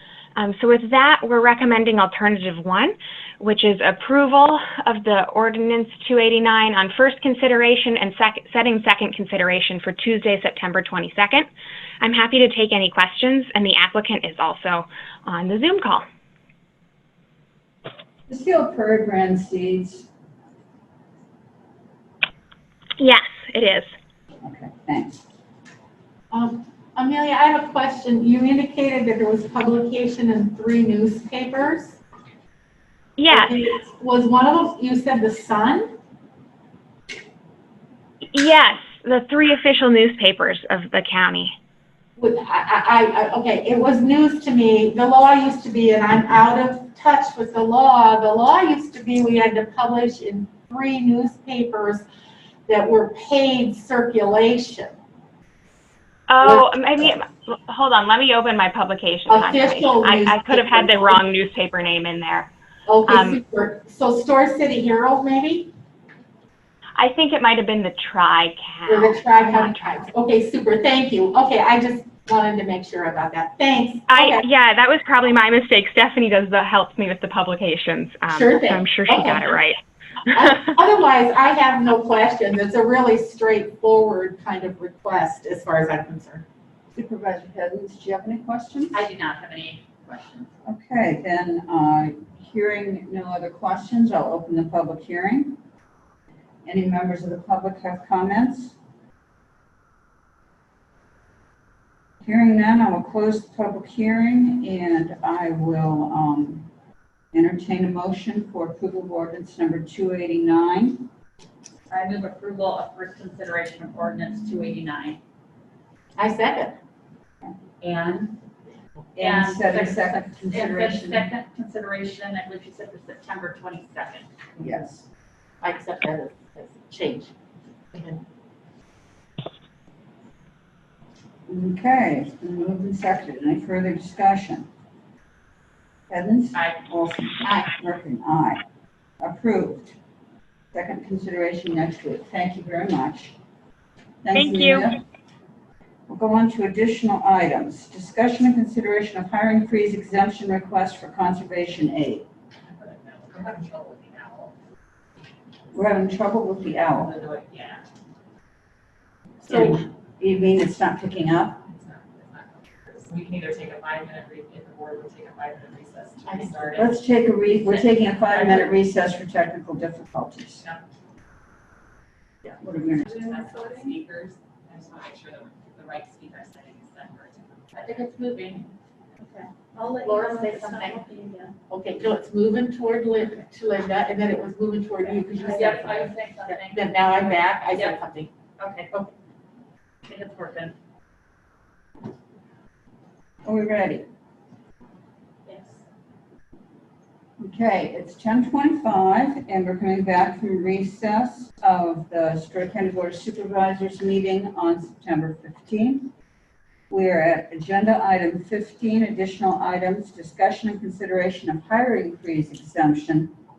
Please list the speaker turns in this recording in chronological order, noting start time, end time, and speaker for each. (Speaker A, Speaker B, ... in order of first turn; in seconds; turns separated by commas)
Speaker A: 0.3-11.5, Speaker A: 12.0-16.0, Speaker B: 18.3-20.1, Speaker A: 23.0-23.9, Speaker B: 24.4-25.2, Speaker C: 26.3-32.0, Speaker A: 33.2-33.5, Speaker C: 33.3-35.9, Speaker A: 38.3-41.5, Speaker C: 42.2-52.0, Speaker C: 52.7-55.0, Speaker A: 56.3-62.5, Speaker C: 59.3-61.2, Speaker C: 62.9-65.7, Speaker A: 63.0-63.4, Speaker A: 67.0-70.0, Speaker C: 68.9-74.4, Speaker A: 74.1-79.8, Speaker C: 78.3-79.5, Speaker C: 80.3-86.4, Speaker B: 86.9-89.0, Speaker D: 88.9-90.5, Speaker B: 90.7-95.6, Speaker B: 96.6-98.7, Speaker B: 102.2-106.7, Speaker B: 107.3-111.1, Speaker D: 111.9-115.2, Speaker C: 116.2-116.8, Speaker D: 117.8-118.3, Speaker B: 119.2-121.3, Speaker D: 119.2-124.3, Speaker B: 124.6-125.0, Speaker C: 125.6-127.3, Speaker C: 127.9-128.2, Speaker B: 131.5-134.7, Speaker B: 136.1-138.6, Speaker B: 139.2-139.9, Speaker B: 140.7-143.3, Speaker B: 144.2-145.0, Speaker A: 144.3-144.9, Speaker B: 146.1-152.2, Speaker E: 152.7-154.5, Speaker B: 155.7-157.2, Speaker E: 157.1-157.8, Speaker C: 159.4-159.8, Speaker B: 159.5-161.6, Speaker E: 161.7-167.0, Speaker C: 166.2-166.8, Speaker B: 166.8-170.6, Speaker D: 168.3-168.7, Speaker B: 172.4-173.7, Speaker E: 173.0-178.1, Speaker D: 177.7-178.7, Speaker D: 179.2-181.5, Speaker C: 179.8-181.1, Speaker C: 181.7-188.3, Speaker D: 185.2-188.0, Speaker D: 188.6-188.9, Speaker D: 190.0-190.7, Speaker B: 193.4-194.1, Speaker D: 195.5-195.8, Speaker B: 197.4-206.1, Speaker B: 206.9-213.3